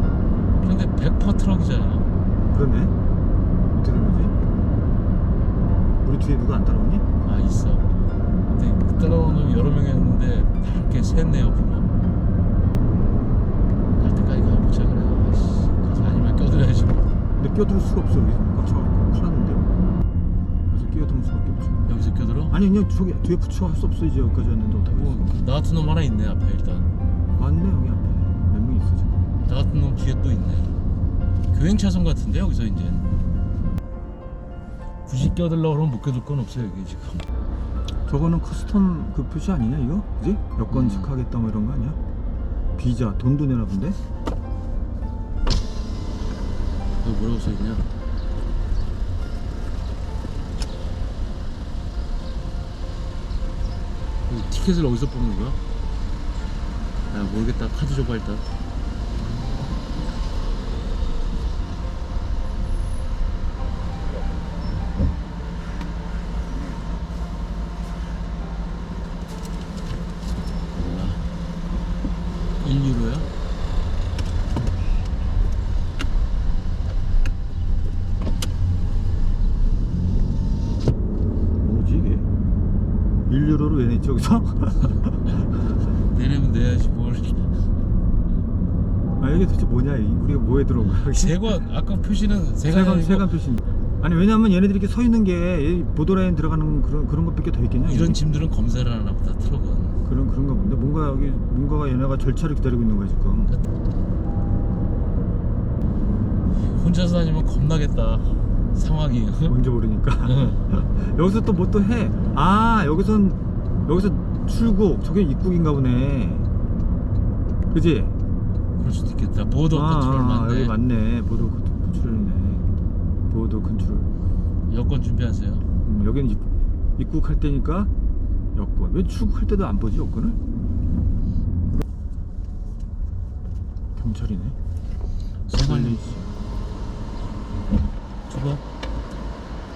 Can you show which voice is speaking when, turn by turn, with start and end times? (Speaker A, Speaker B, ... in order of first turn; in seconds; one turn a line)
Speaker A: 0.6-2.1
Speaker B: 2.5-2.9
Speaker B: 3.7-4.3
Speaker B: 6.0-7.0
Speaker A: 7.2-7.9
Speaker A: 8.5-11.9
Speaker A: 14.0-17.1
Speaker B: 17.4-19.7
Speaker B: 20.7-21.9
Speaker A: 21.9-22.6
Speaker B: 22.5-25.4
Speaker A: 24.8-26.9
Speaker B: 27.4-29.3
Speaker A: 29.4-30.7
Speaker A: 31.5-33.1
Speaker A: 35.1-37.2
Speaker B: 38.1-42.0
Speaker A: 40.7-41.1
Speaker B: 42.8-44.0
Speaker A: 47.0-47.9
Speaker A: 54.3-55.6
Speaker A: 57.1-58.4
Speaker A: 70.7-71.2
Speaker A: 72.6-73.3
Speaker B: 81.6-82.3
Speaker B: 83.3-85.3
Speaker A: 85.8-87.5
Speaker B: 89.2-91.6
Speaker A: 90.8-93.3
Speaker B: 92.7-98.2
Speaker A: 97.8-100.0
Speaker B: 100.0-103.5
Speaker A: 106.5-109.6
Speaker B: 109.5-116.5
Speaker A: 110.2-110.7
Speaker B: 117.7-118.2
Speaker A: 118.8-120.8
Speaker B: 119.7-122.7
Speaker B: 123.3-124.1
Speaker A: 124.7-125.7
Speaker B: 125.8-127.9
Speaker B: 128.5-130.4
Speaker B: 133.9-134.6
Speaker A: 135.5-136.1
Speaker B: 135.6-136.3
Speaker A: 138.3-138.6